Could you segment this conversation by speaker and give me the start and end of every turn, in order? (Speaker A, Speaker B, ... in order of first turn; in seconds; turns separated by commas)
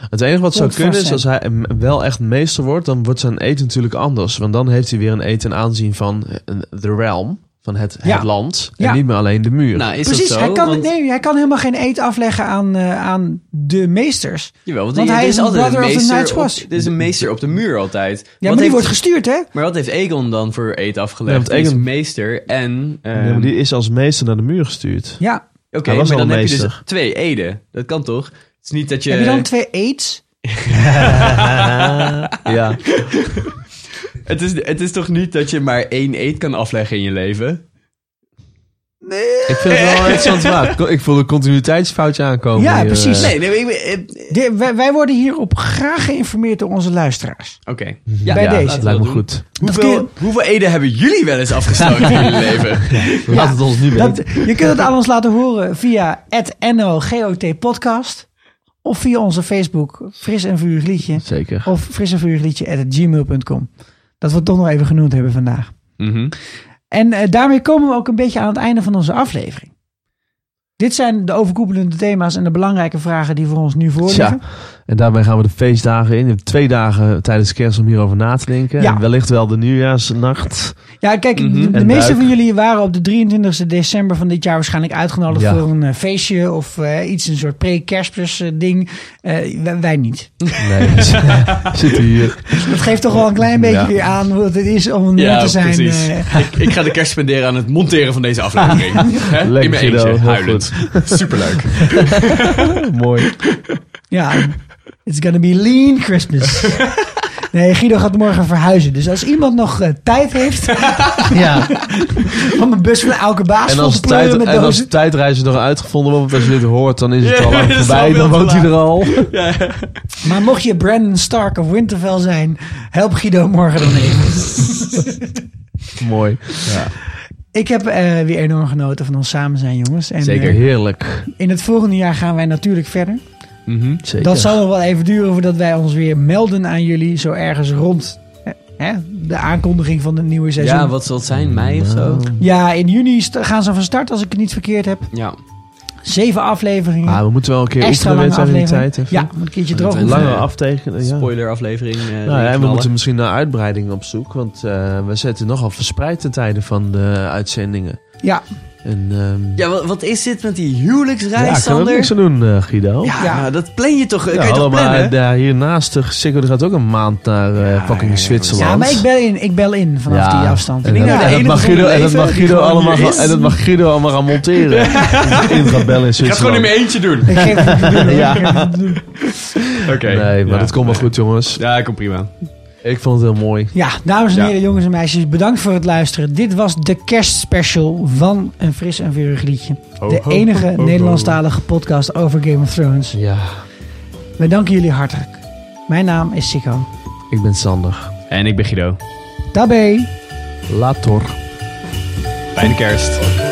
Speaker A: 0.1-9.9, Speaker B: 0.5-1.2, Speaker B: 8.0-9.0, Speaker C: 9.7-10.9, Speaker B: 10.0-16.7, Speaker C: 14.7-19.0, Speaker A: 16.8-17.3, Speaker B: 18.4-19.5, Speaker C: 19.5-23.5, Speaker A: 21.2-21.9, Speaker A: 23.1-25.2, Speaker C: 25.7-29.5, Speaker A: 25.8-26.8, Speaker B: 29.1-30.2, Speaker C: 30.5-33.6, Speaker A: 30.8-32.9, Speaker C: 34.2-37.6, Speaker B: 39.0-40.3, Speaker A: 39.5-43.3, Speaker C: 39.7-40.6, Speaker B: 42.5-43.4, Speaker C: 43.2-44.3, Speaker B: 44.3-47.6, Speaker C: 47.6-53.4, Speaker A: 48.1-49.4, Speaker B: 48.2-48.9, Speaker B: 49.6-50.1, Speaker A: 52.9-54.5, Speaker B: 53.3-58.3, Speaker B: 58.8-63.7, Speaker A: 61.2-61.7, Speaker B: 64.2-65.7, Speaker C: 66.0-66.3, Speaker B: 66.9-69.7, Speaker B: 70.8-74.4, Speaker A: 74.0-80.8, Speaker B: 78.8-79.0, Speaker B: 81.0-91.0, Speaker C: 81.3-81.7, Speaker A: 81.7-82.3, Speaker A: 85.3-85.6, Speaker A: 90.6-92.7, Speaker B: 92.5-96.5, Speaker A: 93.4-93.9, Speaker C: 95.2-102.6, Speaker A: 99.3-101.5, Speaker A: 102.7-103.4, Speaker B: 104.1-106.8, Speaker B: 107.5-114.9, Speaker A: 111.3-111.9, Speaker A: 113.7-119.3, Speaker C: 117.2-120.2, Speaker B: 120.2-125.3, Speaker A: 126.0-126.8, Speaker C: 126.6-126.9, Speaker B: 127.5-130.6, Speaker C: 130.2-130.6, Speaker A: 130.4-131.3, Speaker B: 131.3-133.2, Speaker C: 133.7-134.0, Speaker A: 134.0-134.6, Speaker B: 134.2-140.9, Speaker C: 140.6-142.3, Speaker A: 141.3-142.4, Speaker B: 142.4-145.1, Speaker C: 145.1-145.4, Speaker B: 146.0-147.2, Speaker A: 147.0-149.3, Speaker B: 147.8-150.3, Speaker C: 149.7-150.5, Speaker A: 149.9-151.3, Speaker C: 151.0-152.9, Speaker A: 152.2-158.0, Speaker A: 158.8-159.6, Speaker C: 159.6-162.1, Speaker A: 161.3-163.2, Speaker C: 163.0-165.1, Speaker B: 163.2-163.5, Speaker A: 164.3-169.1, Speaker C: 167.6-168.8, Speaker B: 168.6-173.5, Speaker A: 170.1-176.7, Speaker C: 170.9-173.4, Speaker C: 174.7-177.7, Speaker A: 177.2-179.0, Speaker B: 177.3-179.1, Speaker C: 179.7-182.3, Speaker A: 179.9-181.6, Speaker A: 182.8-183.7, Speaker B: 183.7-193.2, Speaker C: 190.0-191.4, Speaker A: 193.1-193.6, Speaker B: 194.4-196.9, Speaker A: 197.3-198.1, Speaker C: 198.3-199.0, Speaker B: 199.5-200.1, Speaker A: 200.7-201.4, Speaker C: 202.5-203.2